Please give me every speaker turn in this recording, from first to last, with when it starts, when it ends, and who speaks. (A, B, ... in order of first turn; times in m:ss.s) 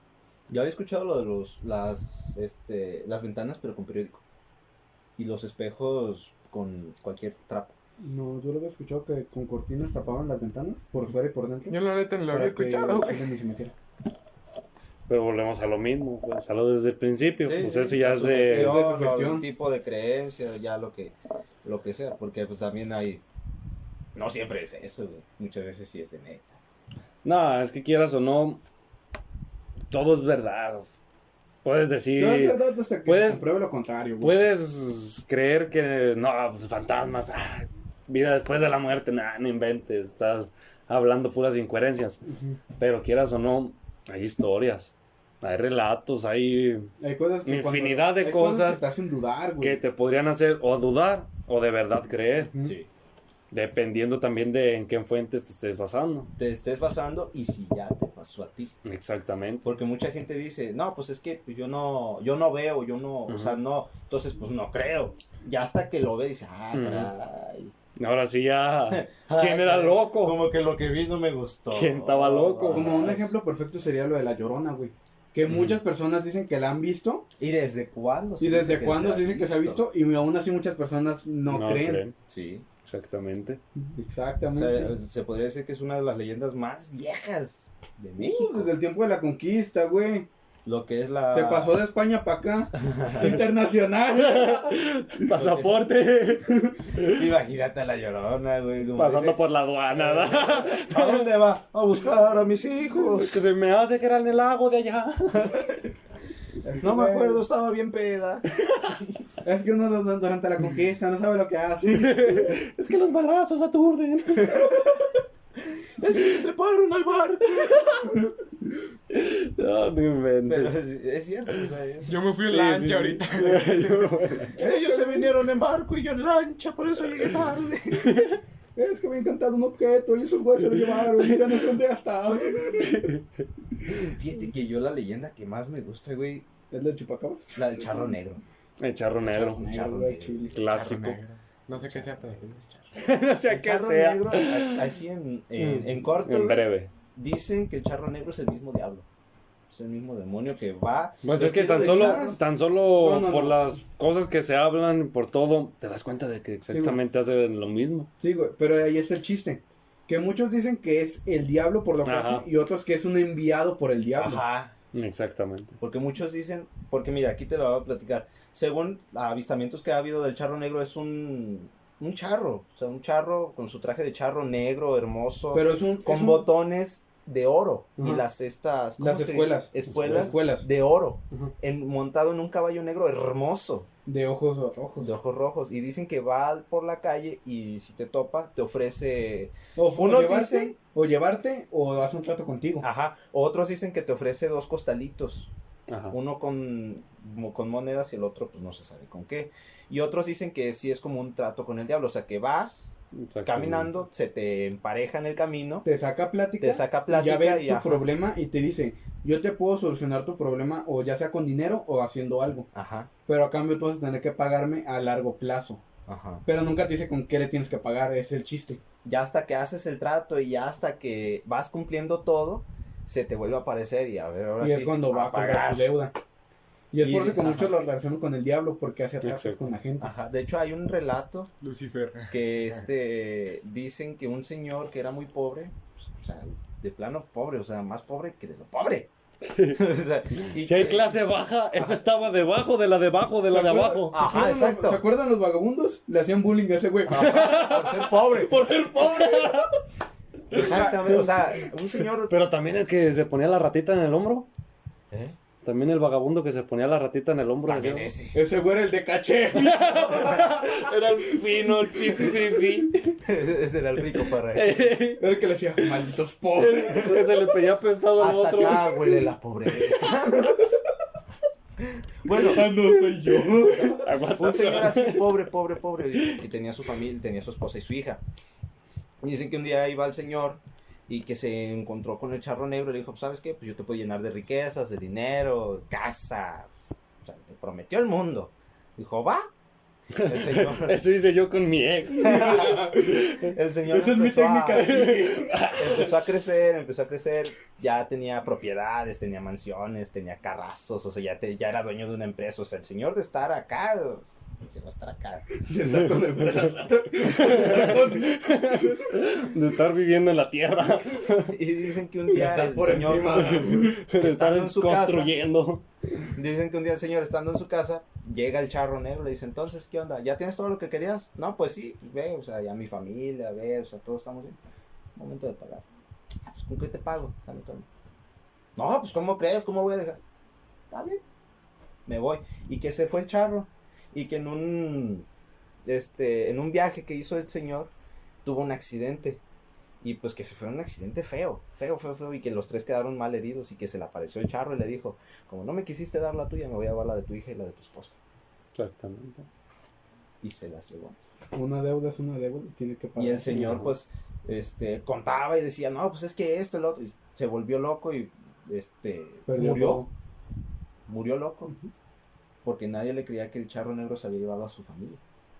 0:00.5-0:04.2 A
0:05.2-0:07.7 A
0:08.0-0:13.7 B
0:11.7-0:13.3 C
0:15.1-0:18.8 D
0:17.4-0:23.2 A
0:17.6-0:19.4 B
0:24.1-0:26.6 A
0:27.2-0:28.6 D
0:29.9-0:30.9 D
0:31.6-0:33.5 D
0:32.2-0:34.4 B
0:34.2-0:42.2 D
0:42.8-0:46.9 D
0:47.0-0:49.8 B
0:47.4-0:48.8 D
0:49.6-0:52.7 D
0:52.6-0:52.9 A
0:53.5-0:56.3 D
0:56.4-0:58.7 A
0:58.8-0:59.7 D
0:59.6-1:07.7 A
1:03.3-1:03.6 D
1:06.7-1:07.1 D
1:08.0-1:10.4 D
1:08.9-1:13.3 A
1:11.7-1:13.1 D
1:12.7-1:17.3 B
1:15.4-1:15.8 D
1:17.4-1:19.9 A
1:18.4-1:22.0 B
1:21.5-1:22.1 D
1:22.3-1:22.6 A
1:22.8-1:23.6 D
1:24.0-1:24.9 B
1:24.5-1:28.7 A
1:28.2-1:30.3 B
1:30.6-1:31.8 A
1:31.3-1:34.8 B
1:32.8-1:33.4 A
1:34.1-1:37.3 D
1:35.3-1:35.8 A
1:37.1-1:39.4 A
1:39.0-1:41.3 D
1:39.9-1:43.4 A
1:42.9-1:45.7 D
1:46.6-1:47.4 B
1:46.7-1:49.0 A
1:49.4-1:52.6 B
1:51.9-1:54.9 D
1:54.4-1:54.8 A
1:56.0-1:57.9 A
1:57.6-1:58.1 D
1:59.1-2:00.8 D
2:00.4-2:02.2 A
2:02.1-2:03.8 C
2:02.4-2:04.6 D
2:04.6-2:05.3 B
2:04.6-2:08.1 A
2:08.0-2:08.4 D
2:08.8-2:13.1 B
2:14.0-2:16.5 A
2:16.7-2:17.5 B
2:17.5-2:18.4 A
2:18.8-2:19.6 D
2:19.3-2:21.2 A
2:19.3-2:20.6 B
2:20.5-2:21.2 D
2:20.7-2:22.6 C
2:21.7-2:29.0 A
2:23.0-2:24.9 D
2:25.6-2:26.9 D
2:29.7-2:32.4 A
2:31.2-2:38.1 D
2:31.7-2:32.4 B
2:33.0-2:33.6 B
2:36.7-2:37.0 B
2:38.2-2:44.4 B
2:42.0-2:42.5 D
2:44.1-2:44.7 A
2:44.9-2:45.8 D
2:45.8-3:03.9 A
2:55.5-2:56.5 B
2:58.0-2:58.2 B
2:59.0-3:00.7 B
3:04.0-3:05.1 B
3:05.0-3:10.7 A
3:09.8-3:12.8 B
3:12.8-3:15.5 A
3:15.9-3:16.2 D
3:16.1-3:22.9 A
3:23.2-3:23.9 D
3:23.4-3:25.9 A
3:25.8-3:32.7 B
3:26.6-3:28.1 A
3:32.7-3:33.1 A
3:33.3-3:35.8 B
3:36.1-3:36.4 A
3:36.4-3:38.8 B
3:39.0-3:45.9 A
3:44.6-3:46.1 B
3:46.9-3:50.1 B
3:47.0-3:47.8 A
3:49.2-3:49.7 D
3:50.0-3:51.5 A
3:51.6-3:52.8 C
3:52.3-3:59.1 A
3:59.5-3:59.8 D
3:59.7-4:01.2 A
4:00.4-4:04.2 D
4:01.7-4:02.0 A
4:03.5-4:07.7 B
4:04.1-4:05.0 A
4:07.0-4:08.5 A
4:07.2-4:08.1 D
4:08.3-4:09.7 B
4:09.0-4:09.7 D
4:10.5-4:12.4 A
4:10.5-4:11.3 B
4:12.3-4:14.5 D
4:15.1-4:15.4 A
4:15.6-4:18.1 D
4:17.6-4:18.4 A
4:18.3-4:22.9 B
4:19.5-4:23.2 D
4:23.2-4:24.9 A
4:24.4-4:25.2 D
4:25.2-4:27.3 B
4:26.5-4:29.2 D
4:28.2-4:30.7 A
4:32.2-4:32.7 A
4:32.4-4:34.1 B
4:32.8-4:35.4 D
4:33.9-4:38.2 A
4:39.2-4:46.7 A
4:47.2-4:49.4 A
4:50.1-4:53.5 D
4:50.2-4:51.0 A
4:52.2-4:53.2 B
4:52.2-4:55.1 A
4:53.9-4:55.6 B
4:54.7-4:56.2 D
4:55.7-5:05.4 A
5:05.6-5:09.0 B
5:05.8-5:11.6 D
5:11.5-5:13.5 A
5:12.3-5:14.0 B
5:13.3-5:15.8 D
5:14.2-5:15.3 A
5:16.3-5:24.6 A
5:25.2-5:25.8 A
5:26.4-5:27.9 A
5:28.8-5:30.2 A
5:30.9-5:31.2 A
5:32.0-5:35.3 A
5:35.8-5:37.9 A
5:38.4-5:39.4 A
5:40.0-5:48.2 A
5:48.8-5:49.4 D
5:50.4-5:51.2 A
5:51.5-5:53.8 B
5:53.2-6:00.0 A
5:53.5-5:53.9 D
5:59.5-6:00.1 B
6:01.1-6:01.7 A
6:02.6-6:05.2 A